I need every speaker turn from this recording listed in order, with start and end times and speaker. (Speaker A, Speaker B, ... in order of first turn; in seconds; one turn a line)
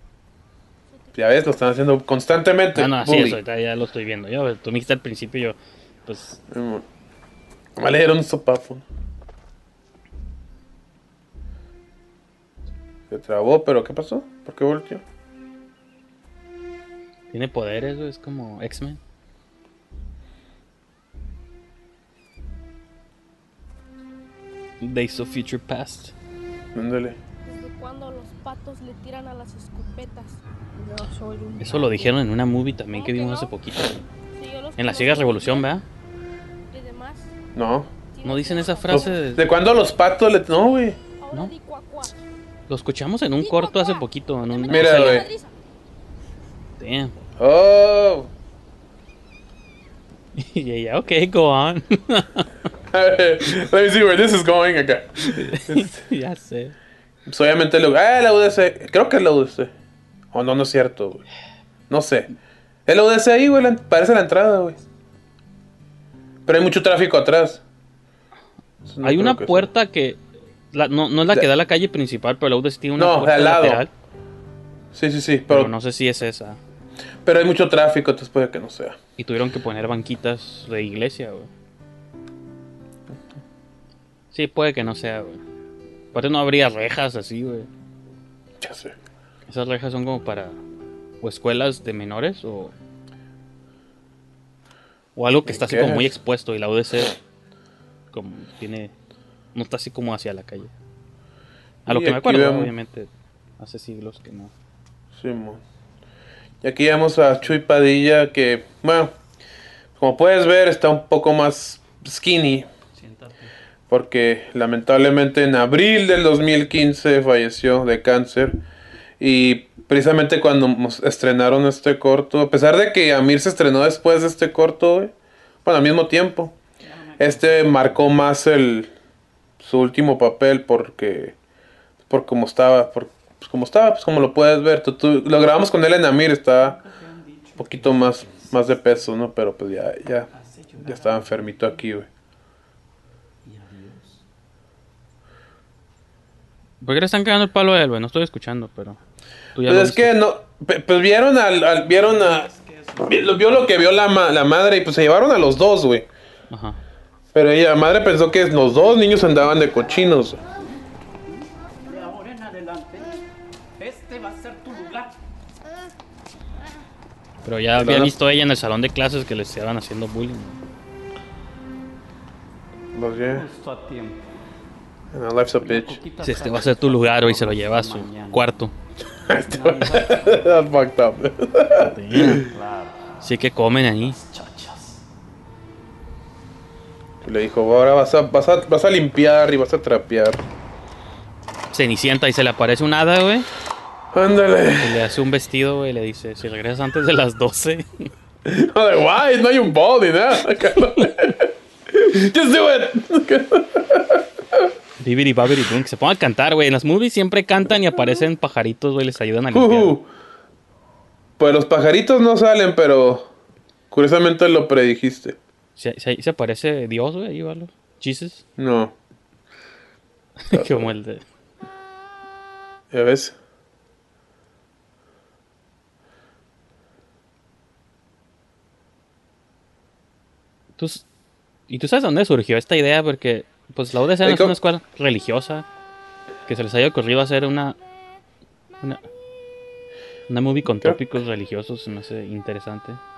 Speaker A: 0.9-1.2
Speaker B: 1.1-3.4
Speaker C: 2.7-6.4
Speaker B: 6.5-6.8
Speaker B: 7.8-8.8
Speaker B: 13.1-15.0
Speaker C: 17.3-19.0
Speaker C: 24.8-26.1
Speaker B: 26.7-27.2
Speaker A: 27.4-32.2
Speaker C: 31.6-34.0
Speaker A: 32.9-33.5
Speaker A: 34.3-35.8
Speaker C: 34.8-35.8
Speaker A: 36.7-37.3
Speaker B: 37.5-37.9
Speaker A: 38.1-39.3
Speaker C: 38.2-39.5
Speaker B: 38.9-41.0
Speaker A: 41.2-42.2
Speaker C: 42.7-45.2
Speaker A: 43.4-45.5
Speaker B: 44.7-45.3
Speaker C: 46.8-47.1
Speaker B: 47.4-48.3
Speaker C: 50.4-52.5
Speaker B: 52.9-56.0
Speaker C: 55.2-56.8
Speaker B: 57.2-59.7
Speaker B: 60.3-61.2
Speaker B: 61.9-62.3
Speaker B: 62.9-64.8
Speaker B: 66.5-67.6
Speaker B: 68.8-69.7
Speaker C: 69.0-70.2
Speaker C: 70.7-73.9
Speaker B: 73.0-73.9
Speaker B: 74.9-75.7
Speaker C: 75.5-76.6
Speaker B: 77.2-79.0
Speaker C: 79.2-81.5
Speaker C: 84.3-85.4
Speaker C: 86.1-87.7
Speaker B: 88.6-88.9
Speaker C: 89.5-90.6
Speaker C: 91.2-92.7
Speaker C: 95.2-97.2
Speaker B: 95.5-96.1
Speaker C: 98.1-98.9
Speaker C: 99.5-100.7
Speaker B: 101.8-102.7
Speaker C: 101.8-104.5
Speaker B: 105.1-105.6
Speaker B: 106.6-109.1
Speaker B: 110.0-112.7
Speaker D: 113.0-113.5
Speaker B: 113.9-118.6
Speaker B: 119.2-125.1
Speaker B: 125.6-126.6
Speaker D: 126.8-128.1
Speaker B: 127.2-128.9
Speaker B: 129.6-131.3
Speaker B: 132.1-136.8
Speaker D: 136.6-138.9
Speaker B: 137.6-142.1
Speaker D: 140.3-141.8
Speaker D: 143.4-144.2
Speaker C: 146.8-149.0
Speaker C: 149.5-150.1
Speaker B: 149.7-152.5
Speaker D: 151.8-154.1
Speaker B: 153.0-156.1
Speaker C: 156.5-156.8
Speaker B: 157.3-160.4
Speaker D: 161.8-163.2
Speaker D: 163.8-165.1
Speaker C: 167.4-170.6
Speaker B: 167.7-168.1
Speaker B: 172.9-173.5
Speaker D: 173.3-174.3
Speaker B: 175.1-176.0
Speaker D: 175.6-178.5
Speaker C: 176.2-178.7
Speaker B: 179.2-182.5
Speaker D: 179.5-180.5
Speaker D: 181.8-183.2
Speaker C: 182.0-182.5
Speaker C: 183.2-184.2
Speaker D: 184.0-185.0
Speaker B: 187.2-190.4
Speaker C: 191.7-193.5
Speaker B: 194.1-195.0
Speaker C: 194.8-198.1
Speaker B: 198.4-204.7
Speaker C: 205.0-210.0
Speaker B: 209.5-210.1
Speaker B: 211.4-213.3
Speaker B: 213.9-215.4
Speaker C: 215.8-218.4
Speaker B: 218.6-218.9
Speaker C: 220.4-221.2
Speaker B: 220.5-220.9
Speaker B: 222.9-223.3
Speaker C: 230.8-231.0
Speaker C: 231.7-235.7
Speaker B: 234.2-234.5
Speaker C: 236.5-237.8
Speaker C: 240.3-243.0